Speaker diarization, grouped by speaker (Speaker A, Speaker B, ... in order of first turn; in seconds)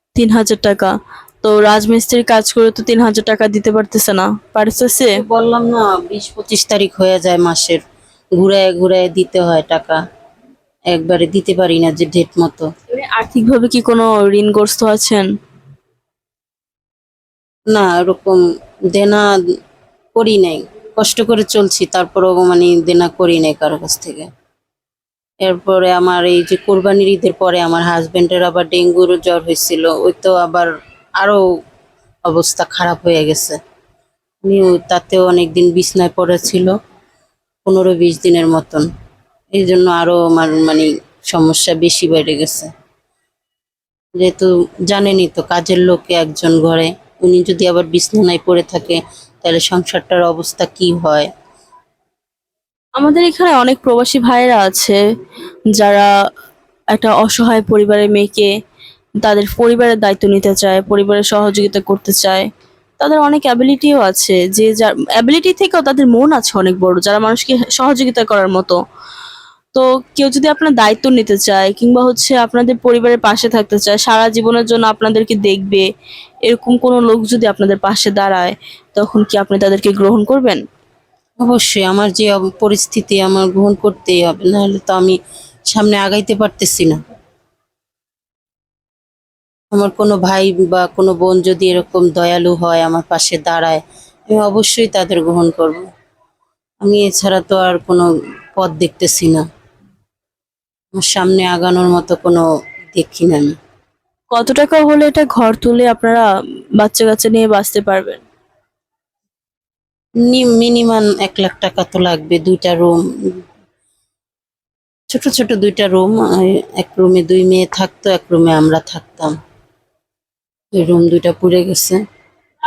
Speaker A: 0.1-5.2, 12.9-15.3, 53.0-55.0, 55.8-56.1, 56.9-58.5, 59.2-62.5, 63.0-68.8, 69.8-75.9, 76.5-80.6, 104.3-106.3, 106.8-108.2
Speaker B: 5.0-7.8, 8.4-10.0, 10.9-12.7, 17.7-18.4, 18.9-19.3, 20.1-24.3, 25.4-30.7, 32.3-33.6, 34.4-36.7, 37.6-38.9, 39.5-42.7, 44.2-51.3, 81.4-85.2, 85.7-87.0, 89.7-95.8, 96.8-99.5, 100.9-103.5, 110.2-113.4, 115.1-119.3, 120.7-122.0